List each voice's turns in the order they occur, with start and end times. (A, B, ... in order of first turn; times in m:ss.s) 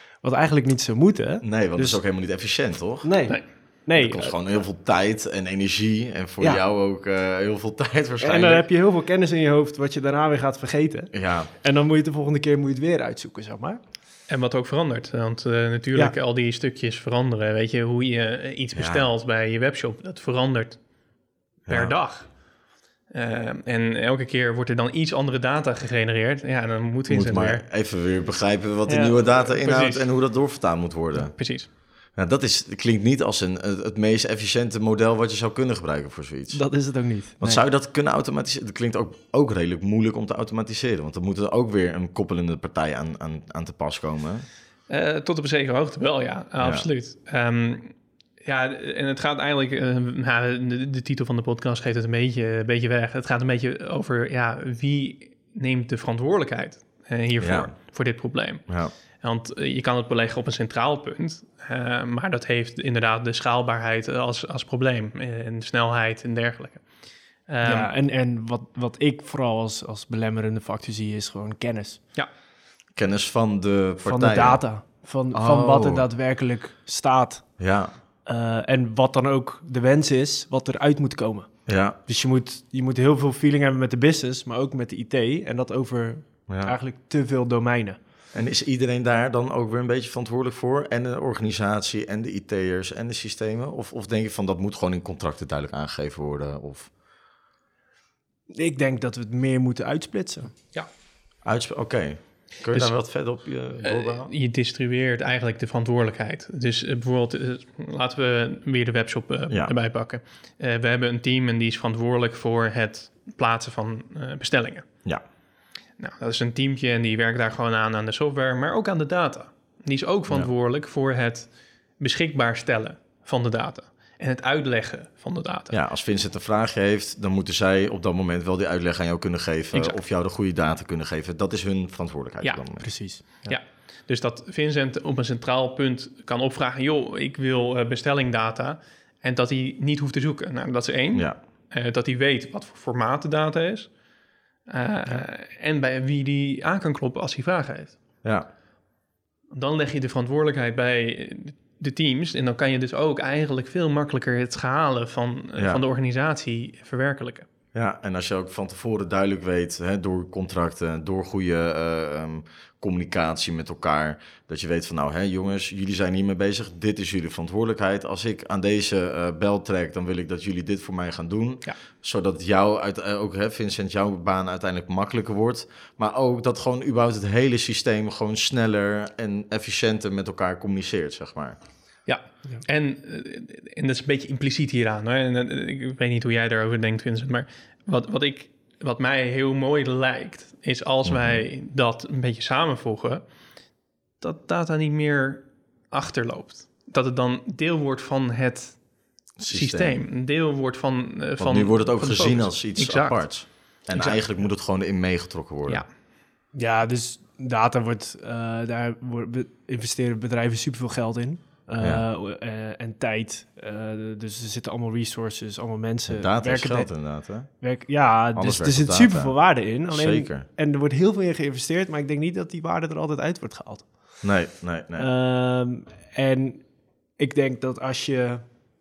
0:00.2-0:02.0 A
0:01.4-0:03.1 B
0:03.0-0:04.4 A
0:04.0-0:08.6 B
0:08.2-0:13.8 A
0:11.1-0:11.5 B
0:14.3-0:20.8 C
0:18.7-0:19.1 B
0:21.6-0:21.9 B
0:21.7-0:22.4 C
0:23.1-0:27.6 C
0:27.1-0:31.4 B
0:28.9-0:30.1 C
0:31.1-0:31.7 C
0:32.1-0:36.6 B
0:36.5-0:37.6 A
0:37.4-0:44.4 B
0:44.9-1:06.9 C
0:46.6-0:46.9 B
0:57.4-0:57.7 B
0:58.7-0:58.9 B
1:07.5-1:07.9 C
1:07.6-1:12.0 A
1:13.0-1:14.6 B
1:14.0-1:17.6 A
1:15.3-1:16.0 B
1:17.6-1:18.0 B
1:18.2-1:28.0 A
1:21.7-1:22.0 B
1:26.5-1:26.7 B
1:28.3-1:36.9 B
1:38.5-1:40.5 A
1:41.4-1:44.3 B
1:42.7-1:43.0 C
1:43.8-1:54.9 C
1:56.0-2:05.7 C
2:05.7-2:12.8 B
2:12.8-2:13.4 A
2:13.2-2:23.9 C
2:24.7-2:28.0 C
2:29.5-2:37.5 C
2:35.6-2:35.8 B
2:37.7-3:01.6 B
3:02.0-3:13.2 C
3:11.0-3:11.4 B
3:14.2-3:18.9 C
3:19.4-3:20.0 B
3:19.5-3:24.3 C
3:21.4-3:25.8 B
3:26.5-3:36.9 A
3:36.1-3:37.5 B
3:37.6-3:43.9 A
3:38.3-3:39.3 B
3:39.9-3:40.5 B
3:44.2-3:45.1 B
3:45.0-3:46.6 A
3:47.2-3:48.4 A